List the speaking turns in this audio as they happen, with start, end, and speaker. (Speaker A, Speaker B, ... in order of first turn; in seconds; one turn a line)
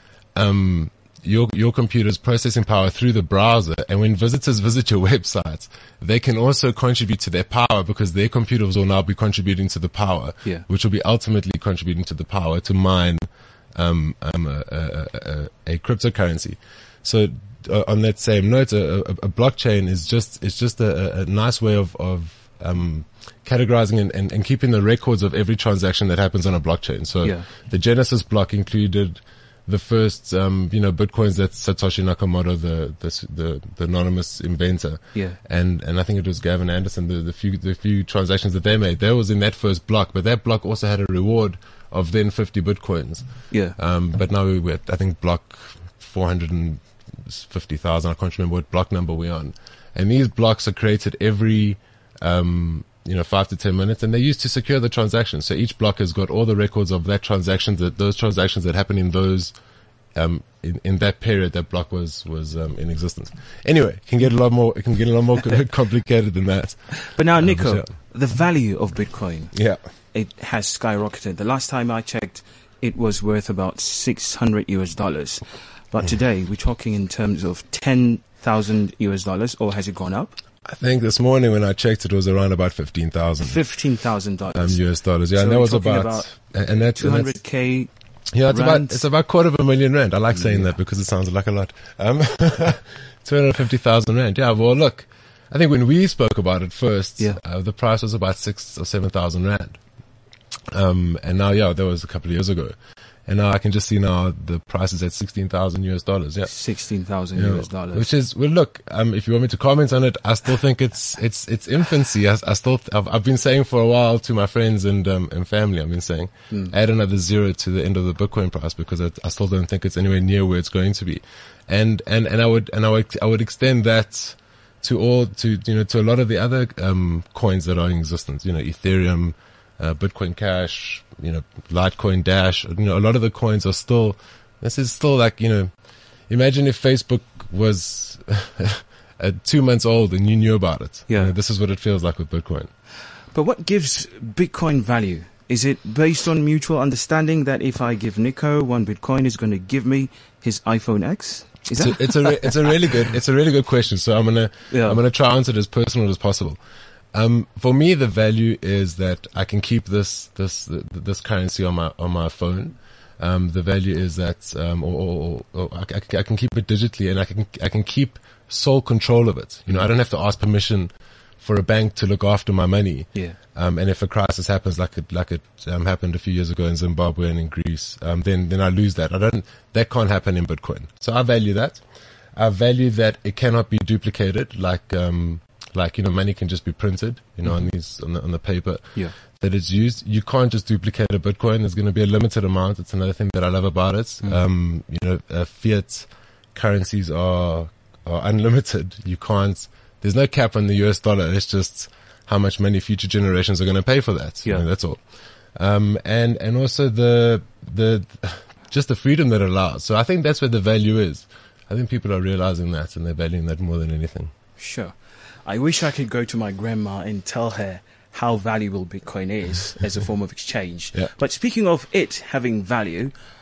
Speaker A: 0.3-59.5
Speaker B: 43.5-43.8
Speaker A: 60.1-67.9
Speaker B: 67.1-69.5
Speaker A: 69.5-69.8
Speaker B: 70.1-80.4
Speaker A: 80.7-83.6
Speaker B: 83.4-84.8
Speaker A: 84.5-87.3
Speaker B: 85.3-86.3
Speaker B: 87.0-87.9
Speaker A: 88.3-99.8
Speaker B: 88.5-89.0
Speaker B: 90.3-90.7
Speaker A: 100.7-106.5
Speaker B: 106.5-108.1
Speaker A: 107.4-135.7
Speaker A: 136.3-142.7
Speaker B: 141.1-141.3
Speaker B: 143.3-152.7
Speaker A: 151.8-156.6
Speaker B: 154.7-155.0
Speaker A: 157.1-181.8
Speaker A: 182.3-214.3
Speaker B: 214.6-223.1